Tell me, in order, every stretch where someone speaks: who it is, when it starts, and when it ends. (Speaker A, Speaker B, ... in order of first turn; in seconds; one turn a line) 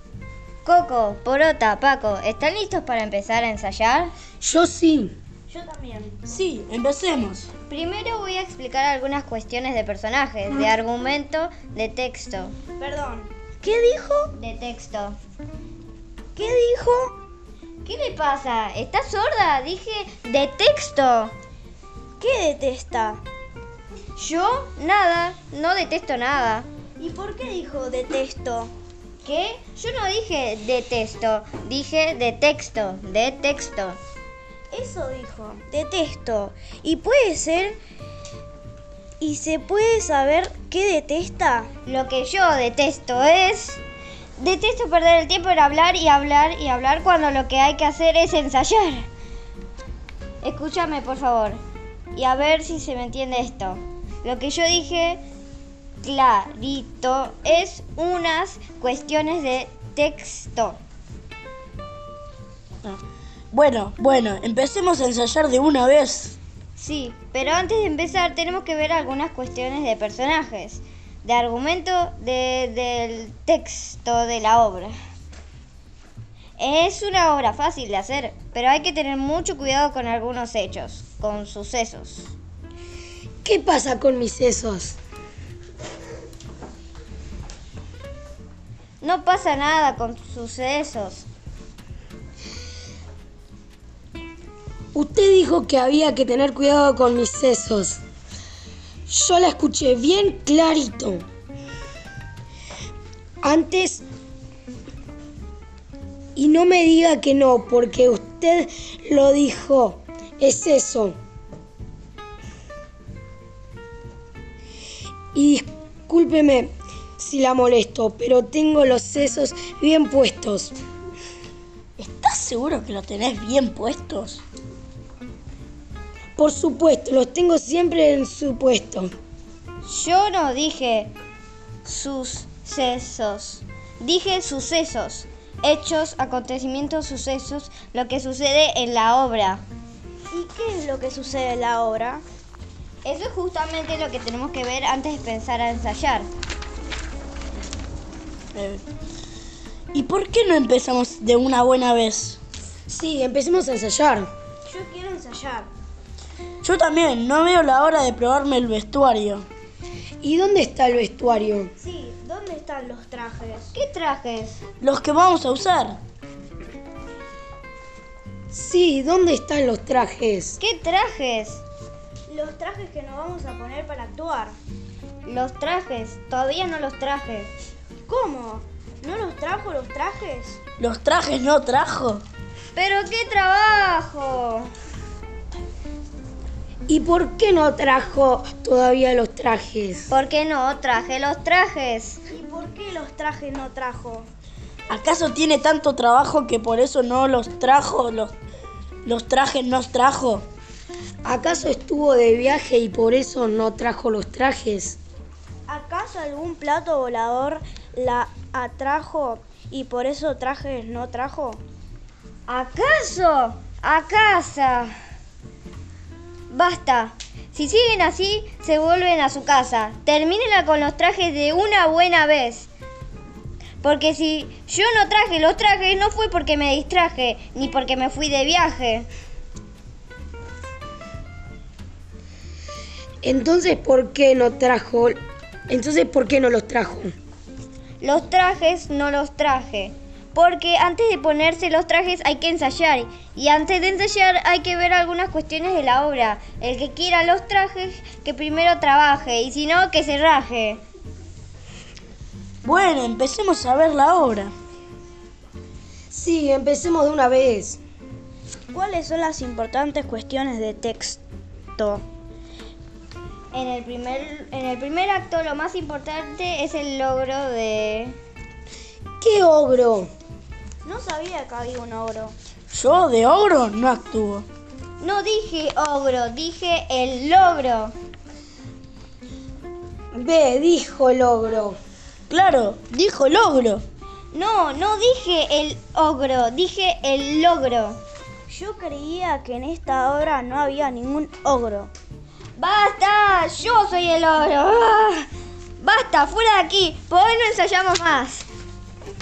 Speaker A: 0.6-4.1
Speaker B: 4.4-5.1
Speaker C: 5.5-6.2
Speaker D: 6.3-7.5
Speaker A: 7.7-12.6
Speaker C: 12.8-14.3
Speaker A: 14.3-15.2
Speaker C: 16.4-17.1
Speaker A: 17.8-21.3
Speaker C: 22.2-23.2
Speaker C: 24.2-24.7
Speaker A: 24.7-26.7
Speaker C: 27.0-28.7
Speaker A: 29.2-34.0
Speaker C: 34.7-37.8
Speaker C: 39.2-41.7
Speaker A: 41.9-43.8
Speaker A: 44.4-49.1
Speaker A: 50.4-51.6
Speaker A: 52.1-55.2
Speaker A: 56.0-60.8
Speaker D: 63.5-66.4
Speaker A: 66.8-75.0
Speaker A: 76.6-82.3
Speaker B: 83.4-85.0
Speaker A: 89.0-91.3
Speaker B: 94.9-98.0
Speaker B: 99.1-101.2
Speaker B: 103.4-104.0
Speaker B: 106.4-111.2
Speaker B: 115.3-120.7
Speaker D: 122.0-124.4
Speaker B: 126.4-129.1
Speaker A: 129.8-131.1
Speaker A: 131.8-139.6
Speaker C: 140.3-142.2
Speaker A: 143.0-146.3
Speaker D: 148.5-148.8
Speaker D: 149.9-152.4
Speaker B: 152.9-154.3
Speaker C: 154.7-155.7
Speaker D: 156.6-159.4
Speaker B: 160.2-161.7
Speaker C: 161.8-163.7
Speaker A: 163.7-164.6
Speaker D: 164.8-166.0
Speaker B: 168.5-170.6
Speaker A: 170.6-171.6
Speaker C: 172.3-174.6
Speaker A: 175.2-177.5
Speaker C: 178.1-180.6
Speaker D: 180.8-182.2
Speaker A: 182.7-184.7
Speaker B: 186.9-190.1
Speaker A: 190.1-192.2
Speaker C: 192.3-194.3
Speaker D: 194.9-198.3
Speaker D: 199.1-200.5
Speaker B: 201.2-205.0
Speaker C: 205.7-211.6
Speaker A: 212.5-214.9
Speaker A: 216.5-222.7
Speaker A: 223.8-229.1
Speaker B: 233.2-235.2
Speaker B: 235.7-237.1
Speaker A: 238.0-250.8
Speaker D: 252.6-254.6
Speaker B: 256.1-257.8
Speaker C: 258.7-261.2
Speaker C: 261.8-262.1
Speaker A: 263.5-268.2
Speaker B: 269.2-270.1
Speaker C: 270.8-272.4
Speaker D: 272.7-274.5
Speaker A: 275.0-277.9
Speaker B: 280.1-281.8
Speaker D: 282.3-283.8
Speaker A: 284.3-288.0
Speaker C: 288.5-291.9
Speaker A: 292.6-295.3
Speaker A: 295.8-298.5